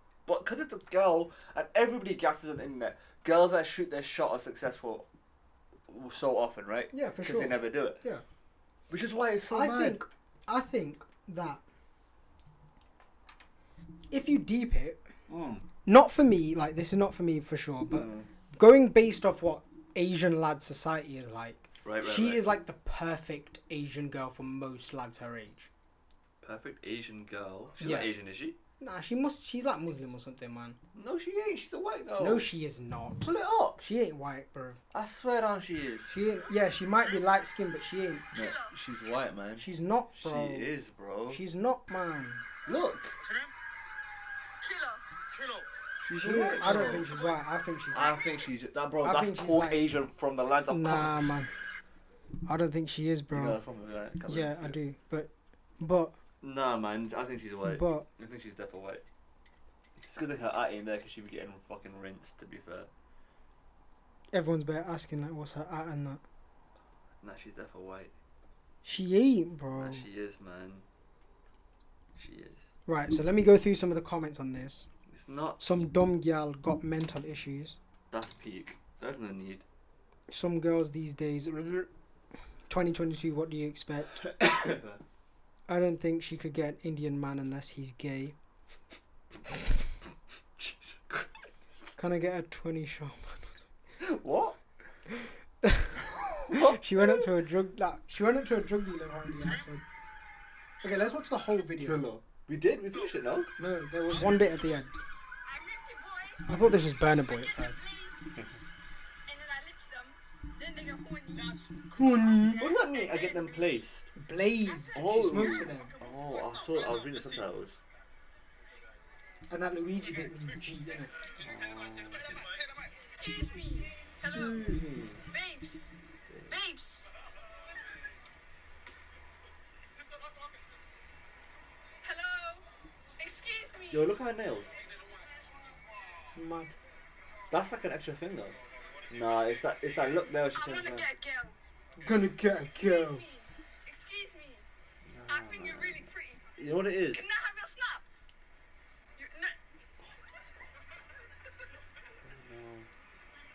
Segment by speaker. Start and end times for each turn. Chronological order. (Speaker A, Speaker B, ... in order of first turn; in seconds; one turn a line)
Speaker A: 0.2-5.0
Speaker A: 5.9-8.0
Speaker B: 6.9-8.2
Speaker A: 8.9-10.0
Speaker B: 9.5-11.6
Speaker B: 14.1-15.0
Speaker A: 15.3-15.6
Speaker B: 15.8-25.7
Speaker A: 17.9-18.3
Speaker A: 21.8-22.4
Speaker A: 26.4-28.6
Speaker B: 27.8-28.1
Speaker B: 28.8-30.8
Speaker A: 30.9-32.5
Speaker B: 32.2-34.8
Speaker A: 33.2-33.8
Speaker A: 34.9-36.1
Speaker B: 36.1-38.3
Speaker A: 38.3-41.4
Speaker C: 38.3-38.8
Speaker B: 39.6-40.7
Speaker B: 41.3-42.4
Speaker A: 42.6-43.2
Speaker C: 44.6-45.0
Speaker A: 46.0-47.1
Speaker B: 46.1-48.2
Speaker C: 46.6-47.4
Speaker A: 47.9-51.3
Speaker B: 49.0-49.9
Speaker B: 50.7-51.5
Speaker B: 52.5-53.6
Speaker A: 53.3-54.8
Speaker B: 54.3-56.1
Speaker A: 56.4-59.0
Speaker B: 57.6-58.0
Speaker A: 60.0-62.9
Speaker B: 64.3-66.2
Speaker A: 67.2-68.1
Speaker B: 68.8-70.0
Speaker A: 69.8-70.8
Speaker A: 72.2-72.7
Speaker B: 72.9-74.9
Speaker A: 75.1-75.7
Speaker B: 75.6-77.8
Speaker A: 78.1-79.6
Speaker B: 80.3-81.9
Speaker B: 82.7-84.3
Speaker A: 84.2-85.0
Speaker B: 85.7-88.3
Speaker A: 90.6-91.3
Speaker B: 92.0-93.5
Speaker A: 94.0-94.6
Speaker B: 95.6-99.8
Speaker A: 96.2-97.2
Speaker B: 100.8-102.0
Speaker A: 101.8-103.5
Speaker B: 103.6-105.0
Speaker C: 105.5-108.2
Speaker B: 106.5-107.8
Speaker C: 109.3-111.6
Speaker B: 111.9-112.7
Speaker C: 112.5-113.8
Speaker A: 112.6-114.1
Speaker B: 114.2-116.0
Speaker A: 114.9-117.8
Speaker B: 119.5-121.1
Speaker A: 121.4-122.4
Speaker C: 123.2-124.6
Speaker A: 124.2-125.2
Speaker C: 125.3-125.9
Speaker C: 126.5-127.1
Speaker C: 132.0-132.6
Speaker C: 133.2-134.1
Speaker A: 133.9-134.7
Speaker B: 136.3-136.7
Speaker A: 137.5-138.6
Speaker A: 139.1-141.1
Speaker C: 140.5-141.6
Speaker B: 142.0-143.2
Speaker C: 142.7-144.7
Speaker A: 145.1-146.0
Speaker C: 145.3-148.1
Speaker A: 146.6-147.2
Speaker C: 149.2-149.6
Speaker A: 152.2-152.9